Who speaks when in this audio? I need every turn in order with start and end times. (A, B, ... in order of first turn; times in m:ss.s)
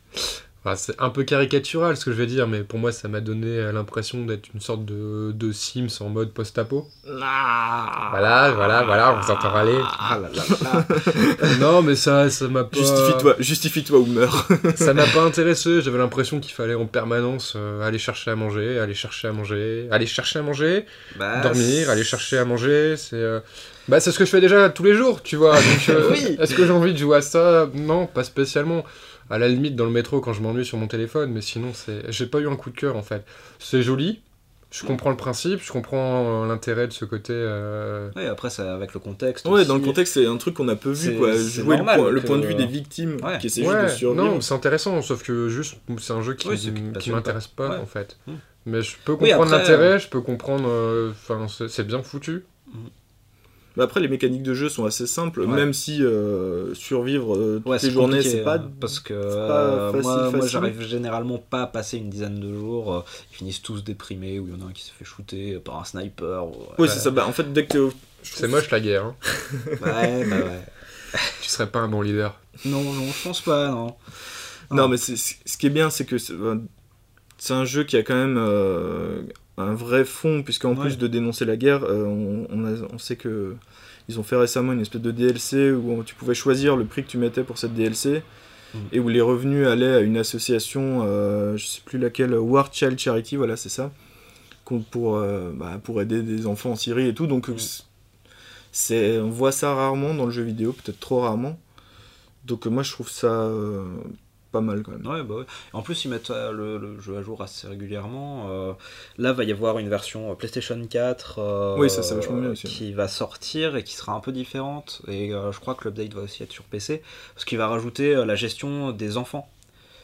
0:00.1-0:06.9 A
0:07.1-0:08.6 B
0:08.1-0:10.0 A
0:09.9-0:11.1 C
0:10.5-0:11.6 B
0:11.4-0:13.3 A
0:12.7-0:15.2 B
0:14.8-0:38.2 A
0:21.1-0:22.3 C
0:25.6-0:26.7 C
0:38.1-0:40.0 C
0:39.4-0:44.5 B
0:41.0-0:43.5 C
0:43.6-0:52.4 A
0:46.4-0:48.4 C
0:49.2-0:49.9 C
0:53.8-1:00.8 B
0:57.6-1:07.0 C
1:06.8-1:08.6 B
1:08.4-1:09.2 A
1:09.4-1:10.3 B
1:09.8-1:11.4 C
1:11.4-1:12.4 A
1:12.6-1:14.0 C
1:14.7-1:16.7 B
1:17.4-1:28.2 B
1:20.7-1:21.0 C
1:28.9-1:33.9 B
1:34.7-1:37.8 B
1:38.7-1:41.6 B
1:42.4-1:45.1 B
1:45.0-1:59.5 C
1:51.8-1:52.8 B